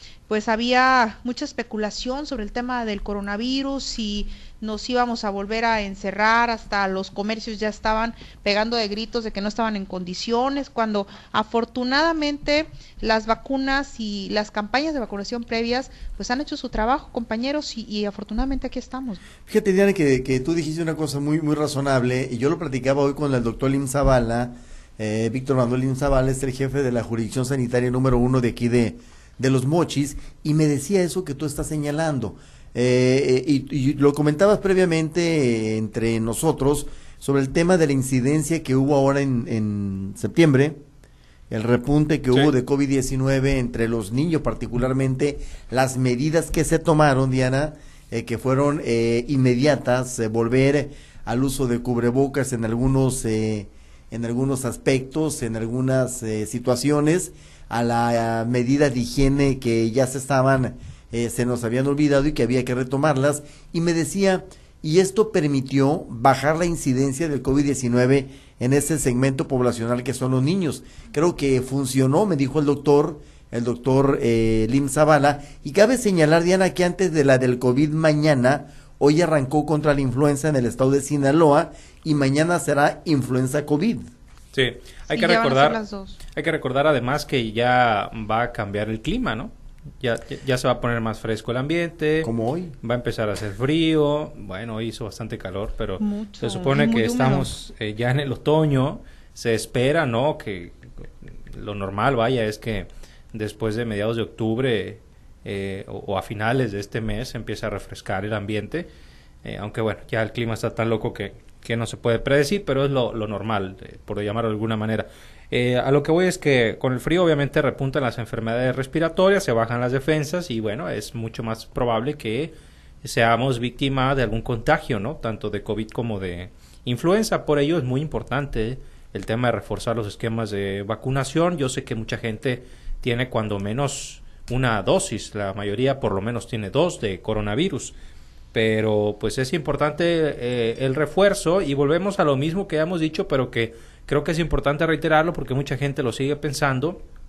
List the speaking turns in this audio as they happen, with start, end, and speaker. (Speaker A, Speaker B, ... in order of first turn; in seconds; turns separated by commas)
Speaker A: 0.3-19.2, Speaker B: 19.5-40.8, Speaker B: 41.5-84.0, Speaker C: 84.5-100.8, Speaker A: 85.1-86.2, Speaker B: 92.2-92.8, Speaker A: 96.0-97.5, Speaker C: 101.5-108.9, Speaker C: 109.5-137.9, Speaker C: 138.5-147.0